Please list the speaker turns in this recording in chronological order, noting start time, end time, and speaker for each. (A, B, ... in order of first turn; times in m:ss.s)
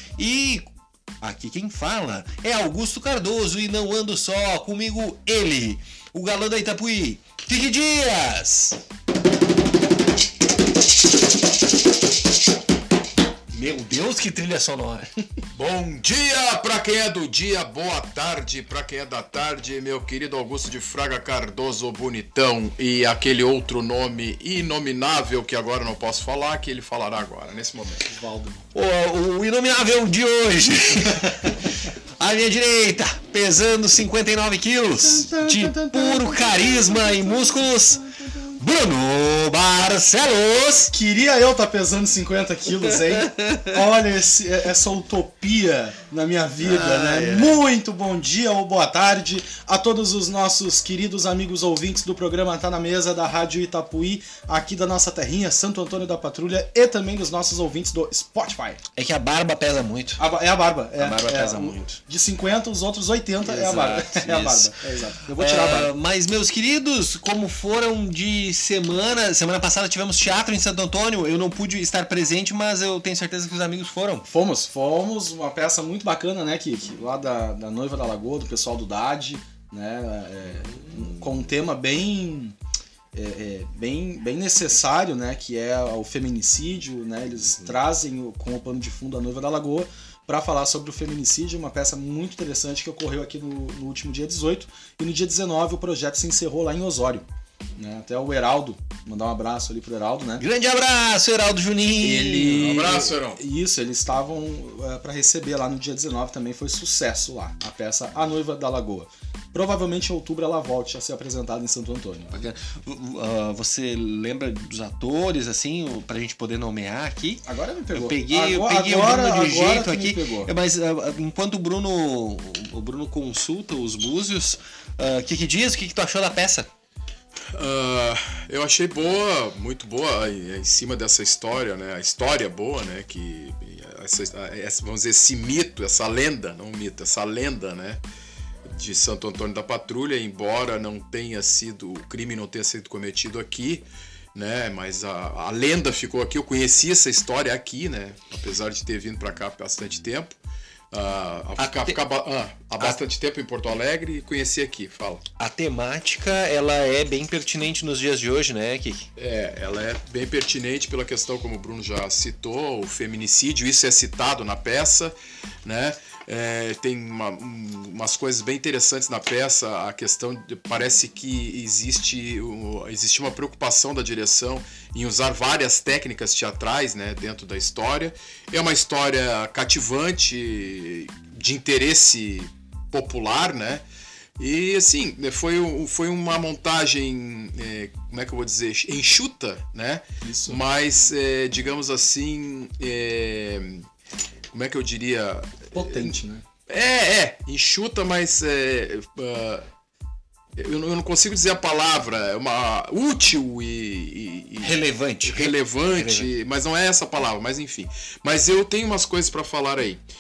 0:00.2-0:00.7 A
0:01.2-0:08.8 A
0:13.5-0:15.1 A
0:15.6-0:28.1 B
0:28.1-0:28.6 C
0:28.7-0:40.9 A
0:35.0-0:37.6 C
0:40.9-0:58.8 C
0:43.1-0:43.7 A
0:46.6-0:47.6 A
0:59.0-1:00.2 A
1:00.2-1:05.9 C
1:01.0-1:02.0 A
1:03.4-1:04.8 A
1:05.3-1:14.3 A
1:14.3-1:22.6 C
1:20.7-1:21.2 A
1:23.1-1:37.3 C
1:37.8-1:40.4 C
1:40.4-1:42.7 A
1:42.0-1:52.3 C
1:42.5-1:43.4 B
1:52.3-2:06.7 A
1:57.5-2:00.5 C
2:07.5-2:18.0 B
2:18.8-2:30.4 B
2:30.9-2:35.2 B
2:31.6-2:32.0 A
2:35.4-2:39.1 A
2:39.2-2:45.1 B
2:45.6-3:03.8 B
3:04.4-3:13.9 B
3:10.2-3:10.6 C
3:14.5-3:16.1 B
3:15.7-3:16.4 C
3:16.7-3:19.7 B
3:20.6-3:30.0 B
3:24.6-3:26.3 A